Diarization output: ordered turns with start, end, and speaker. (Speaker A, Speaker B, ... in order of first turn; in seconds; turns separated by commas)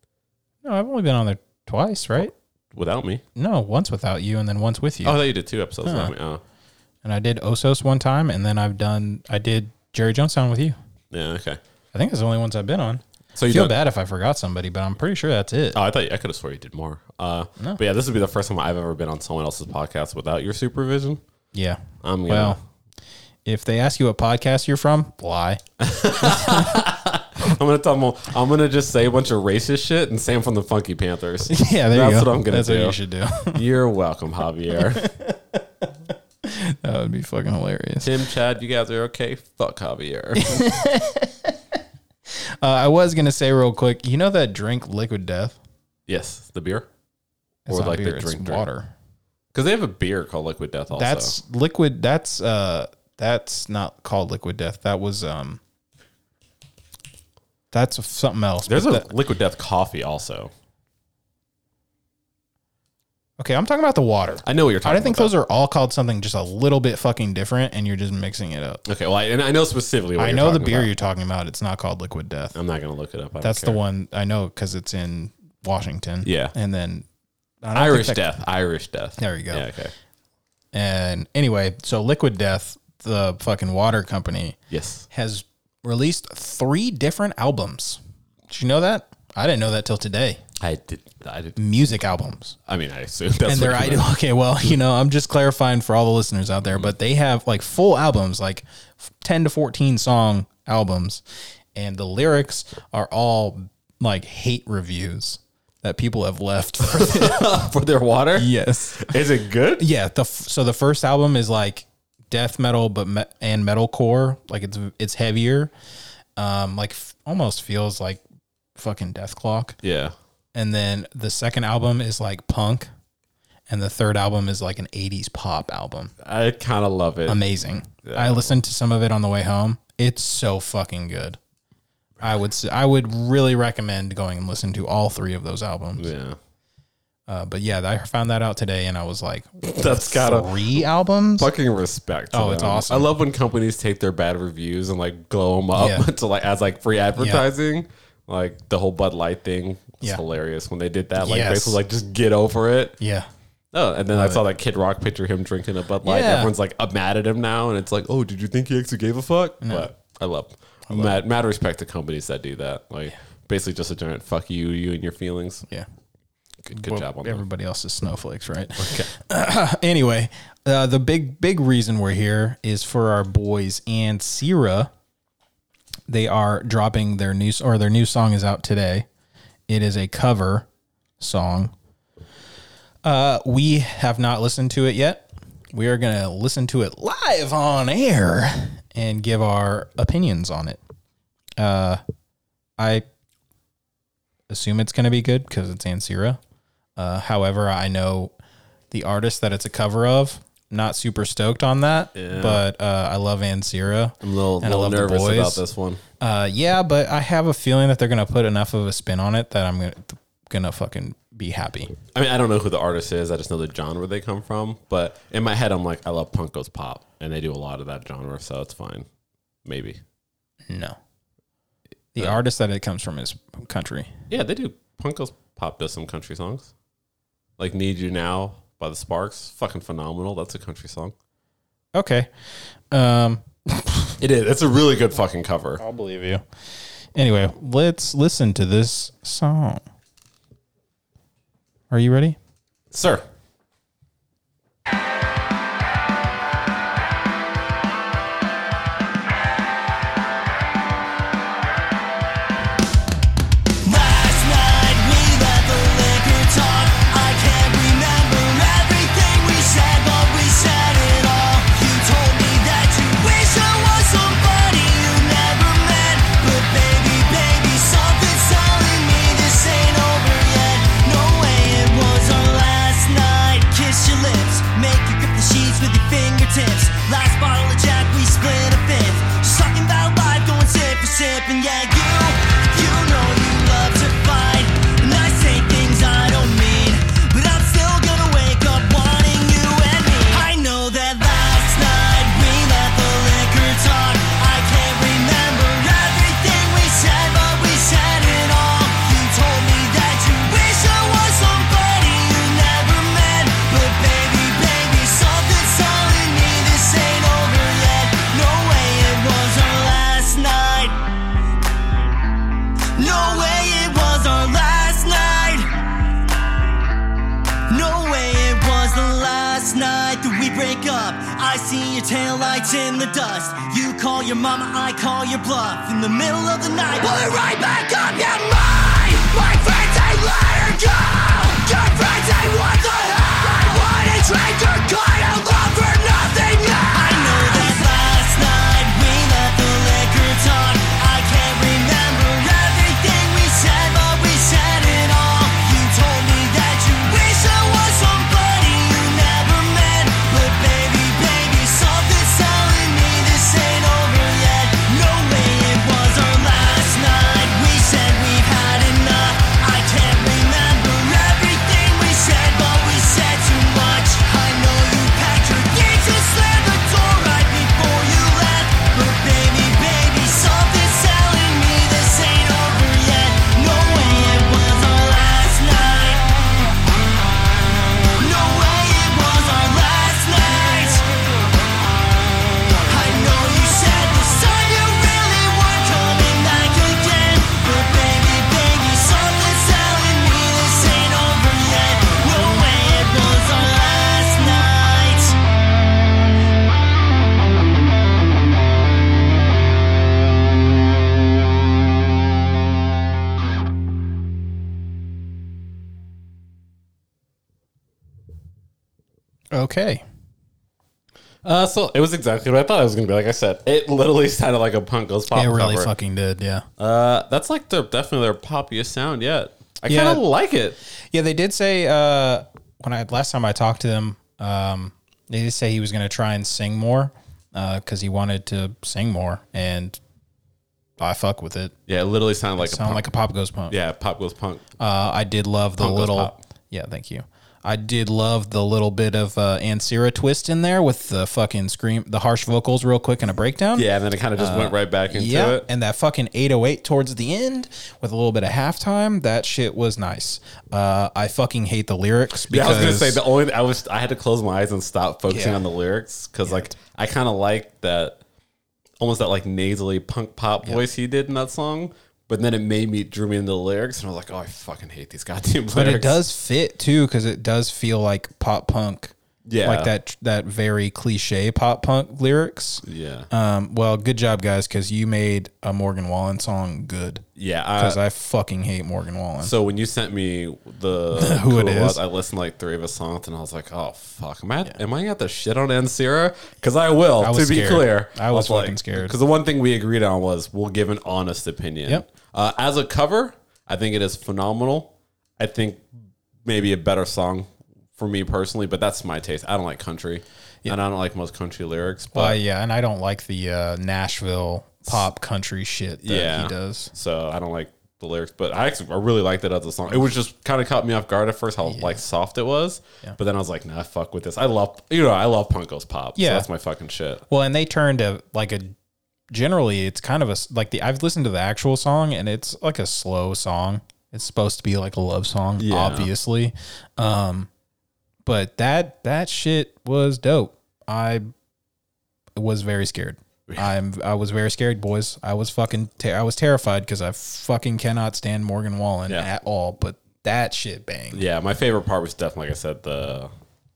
Speaker A: 0.6-2.3, Speaker B: 2.7-3.2, Speaker A: 3.3-5.2, Speaker B: 5.0-6.4, Speaker A: 5.8-6.1, Speaker A: 7.0-10.8, Speaker B: 11.1-11.6, Speaker A: 11.9-15.8, Speaker B: 13.3-13.8, Speaker B: 15.7-21.2, Speaker A: 21.5-22.6, Speaker B: 22.0-22.6, Speaker A: 23.4-25.6, Speaker B: 25.8-33.0, Speaker A: 26.2-26.8, Speaker A: 31.5-33.6, Speaker B: 33.5-35.1, Speaker A: 34.7-35.8, Speaker A: 36.4-38.1, Speaker B: 38.0-40.6, Speaker A: 40.4-41.5, Speaker A: 42.3-45.6, Speaker B: 46.1-46.9, Speaker A: 47.6-48.9, Speaker B: 47.7-48.6, Speaker B: 49.5-51.4, Speaker A: 51.0-55.6, Speaker A: 57.7-59.1, Speaker B: 58.7-60.5, Speaker A: 63.4-68.8, Speaker B: 64.4-65.3, Speaker B: 68.8-70.9, Speaker A: 70.2-72.5, Speaker B: 72.5-73.8, Speaker A: 73.4-77.0, Speaker B: 76.2-76.5, Speaker A: 77.6-78.2, Speaker B: 77.7-79.9, Speaker A: 79.2-79.7, Speaker A: 80.7-84.6, Speaker B: 84.7-85.1, Speaker A: 85.1-90.4, Speaker B: 90.6-91.6, Speaker A: 91.6-92.5, Speaker B: 92.7-94.1, Speaker A: 93.5-101.2, Speaker A: 101.7-107.6, Speaker B: 106.8-109.8, Speaker A: 108.3-109.2, Speaker A: 109.8-115.7, Speaker A: 116.4-118.2, Speaker A: 118.8-119.8, Speaker B: 119.8-120.1, Speaker A: 120.5-122.9, Speaker A: 123.7-126.1, Speaker B: 126.2-127.4, Speaker A: 127.3-131.4, Speaker B: 128.0-128.5, Speaker A: 132.2-136.1, Speaker B: 136.0-136.4, Speaker A: 137.3-141.5, Speaker B: 139.7-140.8, Speaker B: 141.4-152.9, Speaker A: 142.3-143.1, Speaker A: 145.7-146.1, Speaker A: 147.2-147.4, Speaker A: 151.2-151.8, Speaker A: 153.0-153.3, Speaker B: 153.7-165.6, Speaker A: 154.1-154.4, Speaker A: 156.0-156.5, Speaker A: 159.6-159.9, Speaker A: 160.9-161.2, Speaker B: 166.6-167.4, Speaker A: 166.7-174.9, Speaker B: 168.8-169.1, Speaker A: 176.1-179.1, Speaker A: 179.7-180.7, Speaker A: 181.2-181.7, Speaker A: 183.0-190.8, Speaker A: 191.6-192.0, Speaker A: 192.8-193.0, Speaker A: 194.5-196.4, Speaker A: 197.0-198.3, Speaker A: 198.9-205.6, Speaker B: 202.1-202.6, Speaker B: 204.2-206.0, Speaker A: 206.2-211.9, Speaker B: 212.1-219.1, Speaker B: 219.6-220.0, Speaker A: 220.7-221.0, Speaker A: 222.1-224.1, Speaker B: 224.3-226.7, Speaker B: 227.6-231.1, Speaker A: 231.9-232.3, Speaker A: 232.9-234.2, Speaker B: 234.2-235.8, Speaker A: 235.8-236.4, Speaker A: 237.1-239.8, Speaker A: 241.9-242.4, Speaker B: 242.9-243.2, Speaker C: 253.8-311.0, Speaker C: 312.9-315.7, Speaker C: 317.7-376.3, Speaker C: 378.2-381.1, Speaker C: 382.8-395.4, Speaker A: 409.5-410.0, Speaker B: 411.4-415.9, Speaker A: 415.3-416.6, Speaker B: 416.8-420.8, Speaker A: 419.9-420.2, Speaker A: 421.1-430.0, Speaker A: 431.0-431.7, Speaker B: 431.9-433.1, Speaker A: 432.6-433.8, Speaker B: 433.7-434.6, Speaker A: 434.8-453.2, Speaker B: 435.8-436.4, Speaker B: 443.7-445.6, Speaker B: 452.5-458.2, Speaker A: 455.3-455.6, Speaker A: 456.4-456.7, Speaker B: 459.0-466.2, Speaker A: 465.7-477.2, Speaker B: 469.4-469.9, Speaker B: 472.8-473.3, Speaker B: 477.4-478.0, Speaker A: 477.8-479.5, Speaker B: 479.4-495.8, Speaker A: 481.1-482.0, Speaker A: 487.2-489.1, Speaker B: 496.4-502.4, Speaker A: 502.1-506.9, Speaker B: 506.0-517.2, Speaker A: 511.6-512.0, Speaker A: 516.1-516.5, Speaker A: 517.3-518.7, Speaker A: 519.3-527.5, Speaker B: 525.6-526.1, Speaker A: 528.2-531.3, Speaker A: 532.4-541.2, Speaker B: 541.1-543.3